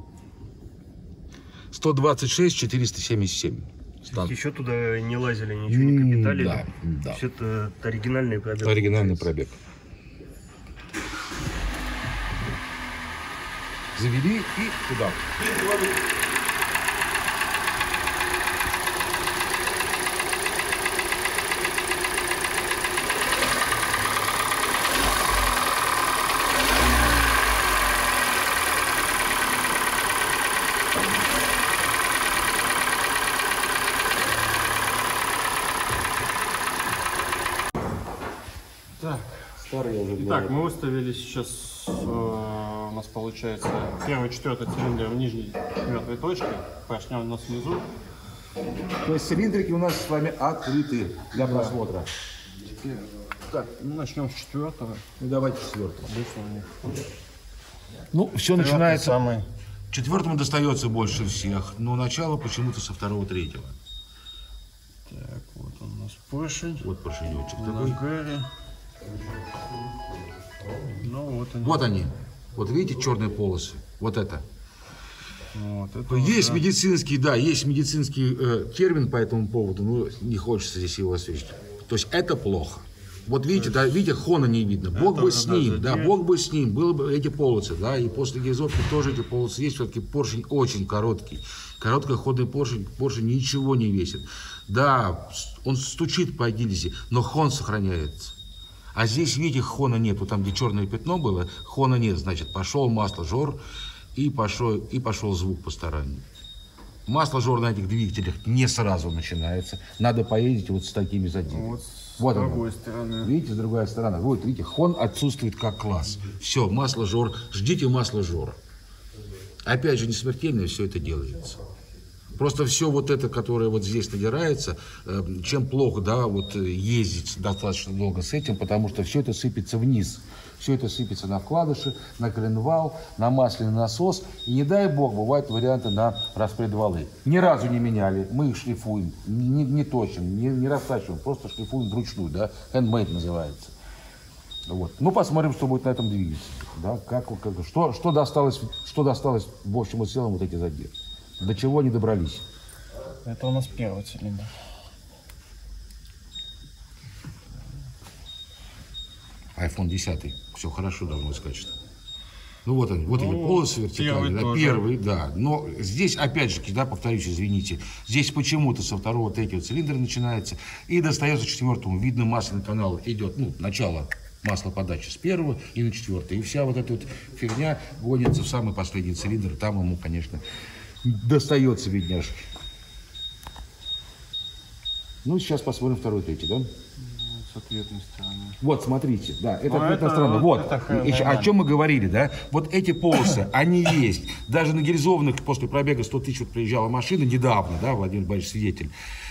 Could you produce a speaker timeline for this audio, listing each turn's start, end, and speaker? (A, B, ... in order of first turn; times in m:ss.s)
0:01.7-0:04.3 A
0:04.1-0:09.3 B
0:05.7-0:07.2 A
0:08.6-0:09.6 A
0:14.0-0:15.2 A
0:39.0-0:39.3 C
0:39.6-0:40.6 A
0:40.2-0:47.9 C
0:49.0-0:52.1 A
0:51.4-0:51.8 C
0:53.6-0:55.0 C
0:55.2-0:56.1 A
0:56.1-0:56.8 C
0:58.1-0:59.2 A
0:58.6-0:59.5 C
0:59.9-1:03.8 A
1:05.1-1:06.9 C
1:06.8-1:08.0 A
1:07.6-1:08.5 C
1:10.9-1:11.9 C
1:11.6-1:14.4 A
1:15.5-1:16.7 C
1:16.1-1:38.3 A
1:24.9-1:26.2 C
1:38.9-1:43.6 A
1:44.2-1:46.2 A
1:47.1-1:52.7 A
1:51.5-1:53.3 C
1:53.2-1:58.6 A
1:59.6-2:01.6 A
2:02.4-2:23.7 A
2:24.7-2:32.4 A
2:33.2-2:34.5 C
2:39.6-2:41.7 A
2:42.6-3:00.4 A
2:43.1-2:44.9 C
3:01.0-3:02.5 A
3:05.2-3:06.7 A
3:07.0-3:08.6 C
3:08.6-3:18.9 A
3:09.6-3:11.5 C